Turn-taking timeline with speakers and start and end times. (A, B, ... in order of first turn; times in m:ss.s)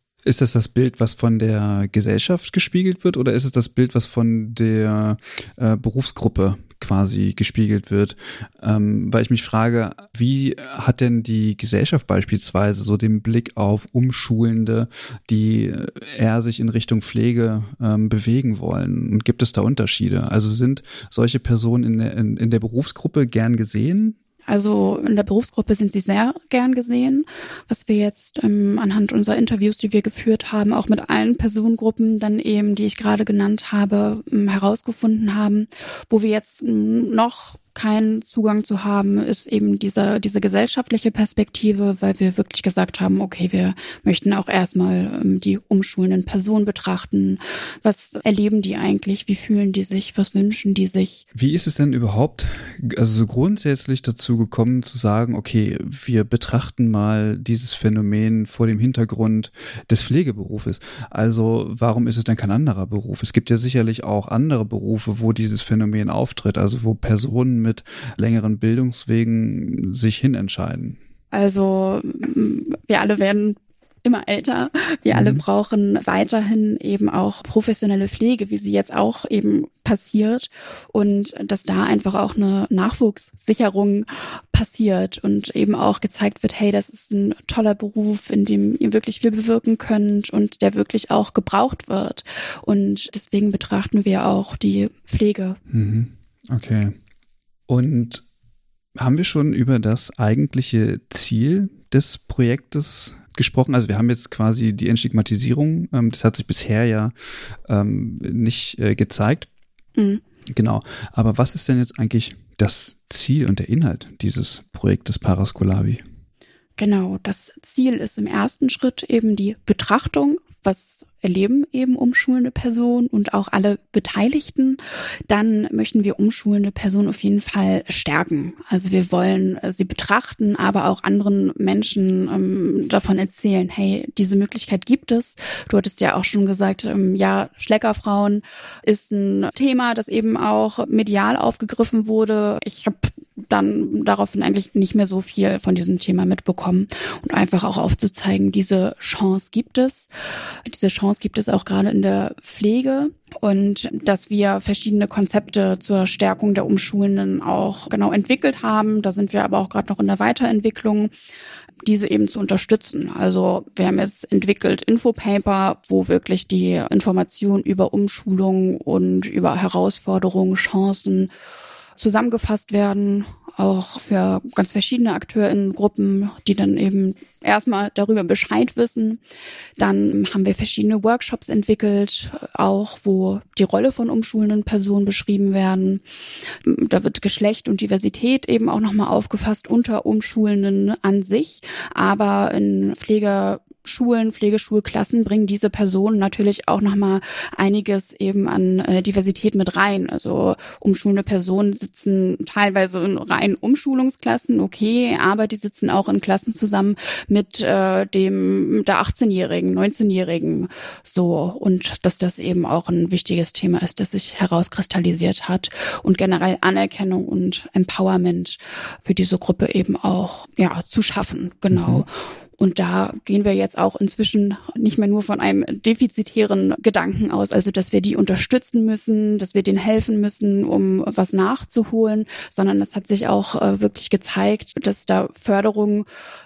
0:00.2-0:24.2 A
0:24.5-0:51.2 B
0:51.3-1:11.0 A
1:11.3-1:35.6 B
1:15.1-1:15.4 A
1:35.7-1:37.0 A
1:37.7-1:38.2 A
1:39.0-1:47.1 A
1:47.7-1:49.5 A
1:50.0-1:50.2 B
1:50.5-1:56.0 A
1:56.8-2:30.1 B
2:30.7-2:41.1 B
2:41.8-2:51.3 B
2:52.0-2:59.2 B
2:59.8-3:06.0 B
3:06.6-3:56.1 B
3:41.7-3:42.0 A